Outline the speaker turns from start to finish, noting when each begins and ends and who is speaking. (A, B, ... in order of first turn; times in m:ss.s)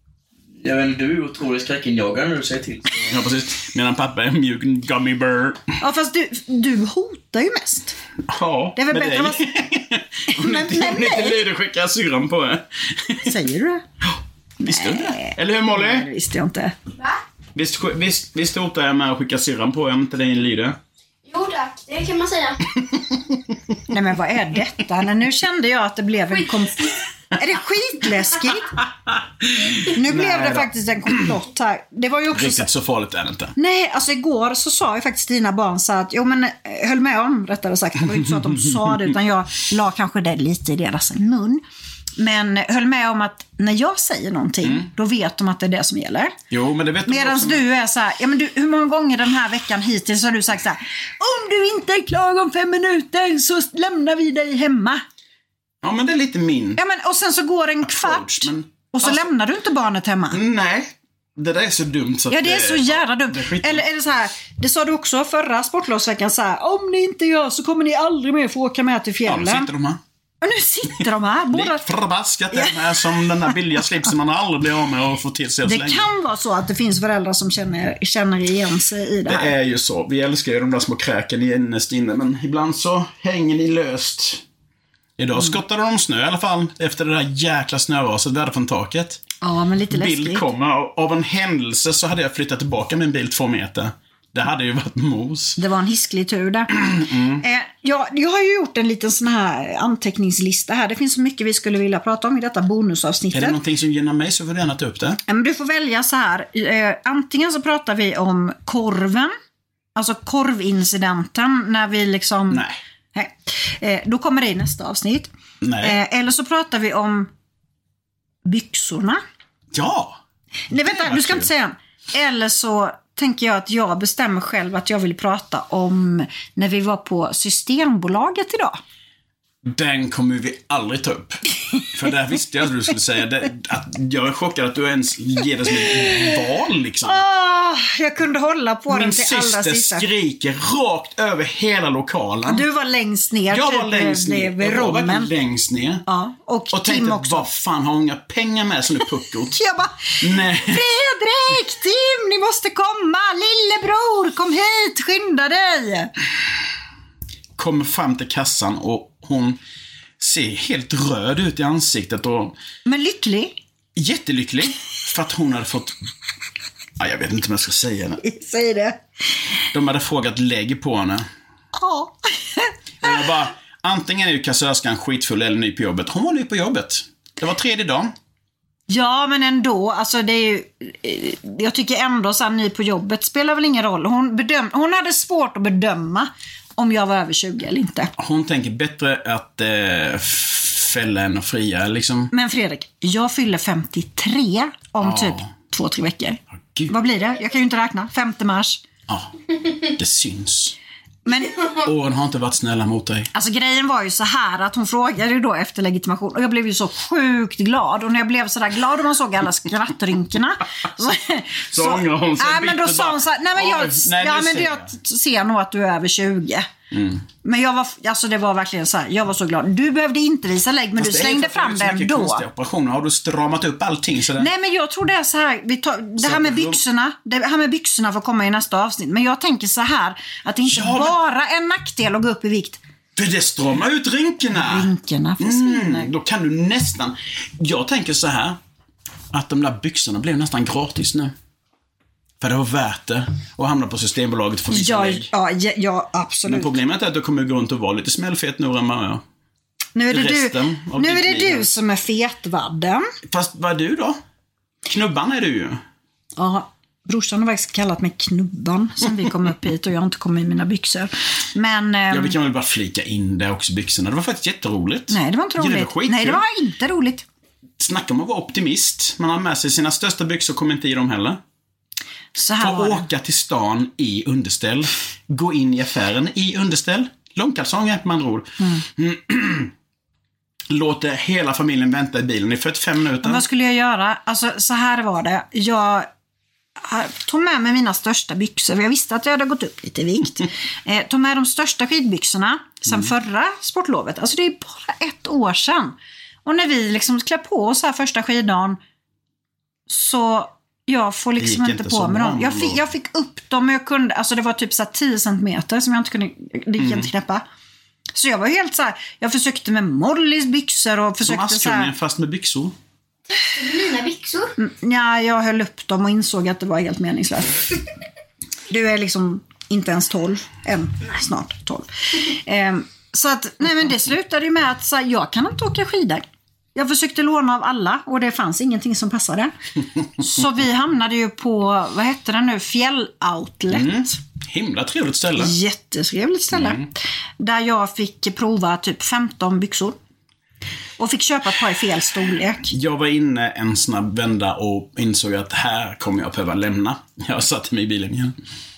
0:00.6-0:03.2 A
0:03.1-0:05.6 B
0:05.8-0:08.0 C
0:08.3-0:13.3 B
0:08.8-0:09.4 C
0:10.3-0:11.4 C
0:13.2-0:13.8 C
0:14.6-0:16.1 B
0:14.6-0:16.7 C
0:17.6-0:20.8 B
0:21.2-0:22.6 D
0:23.9-0:28.8 C
0:29.4-0:31.3 B
0:29.8-0:32.7 C
0:32.3-0:33.6 B
0:33.6-0:41.6 C
0:42.2-0:46.4 C
0:46.5-0:47.6 B
0:47.1-0:55.0 C
0:55.8-0:56.8 B
0:56.8-1:00.4 C
0:57.8-0:59.3 B
1:00.3-1:03.8 B
1:02.3-1:09.7 C
1:09.3-1:10.0 B
1:10.4-1:11.8 C
1:11.5-1:16.1 B
1:12.5-1:13.6 C
1:15.6-1:19.5 C
1:19.3-1:24.4 B
1:25.2-1:29.2 B
1:29.4-1:30.4 C
1:29.9-1:35.6 B
1:35.6-1:43.6 C
1:36.8-1:37.4 B
1:43.3-1:45.2 B
1:45.3-1:49.3 C
1:50.0-1:52.6 C
1:53.2-1:57.3 C
1:55.6-1:56.0 B
1:58.4-1:59.2 C
1:59.7-2:00.2 B
2:00.7-2:08.8 C
2:00.8-2:01.5 B
2:09.6-2:17.2 B
2:17.0-2:20.1 C
2:18.9-2:22.6 B
2:22.5-2:25.3 C
2:23.5-2:26.1 B
2:26.1-2:27.5 C
2:26.7-2:29.6 B
2:29.5-2:36.1 C
2:30.2-2:30.9 B
2:37.6-2:39.6 B
2:40.2-2:42.6 B
2:42.9-2:43.6 C
2:44.0-2:46.0 B
2:47.0-2:48.2 B
2:48.2-2:49.0 C
2:49.7-2:51.3 B
2:51.8-2:53.3 C
2:53.0-2:58.1 B
2:58.9-3:08.1 C
3:08.2-3:12.3 B
3:12.3-3:18.8 C
3:15.0-3:15.5 B
3:19.1-3:20.8 B
3:21.3-3:21.7 C
3:21.8-3:23.3 B
3:23.3-3:36.7 C
3:31.7-3:34.9 B
3:36.9-3:37.2 B
3:37.4-3:42.4 C
3:41.0-3:44.5 B
3:44.4-3:52.8 C
3:46.2-3:46.8 B
3:50.7-3:51.2 B
3:53.2-3:54.9 B
3:54.5-3:56.1 C
3:55.4-3:58.6 B
3:59.3-4:01.3 B
4:02.4-4:05.3 B
4:04.7-4:06.8 C
4:06.5-4:09.2 B
4:10.0-4:13.0 C
4:10.1-4:11.7 B
4:13.3-4:14.2 B
4:14.9-4:15.8 B
4:16.4-4:22.4 C
4:22.1-4:26.4 B
4:25.1-4:27.3 C
4:27.8-4:31.4 B
4:32.4-4:33.0 C
4:32.6-4:39.7 B
4:40.7-4:43.4 B
4:43.2-4:46.1 C
4:46.8-4:58.8 C
4:59.9-5:07.4 C
5:01.4-5:02.8 B
5:06.8-5:07.1 B
5:08.1-5:11.9 C
5:11.2-5:12.7 B
5:13.5-5:14.5 D
5:14.6-5:17.6 C
5:18.7-5:26.2 C
5:26.7-5:29.5 C
5:30.2-5:34.2 C
5:33.7-5:35.6 B
5:35.4-5:40.0 C
5:36.5-5:36.9 B
5:41.0-5:42.7 C
5:42.7-5:48.3 B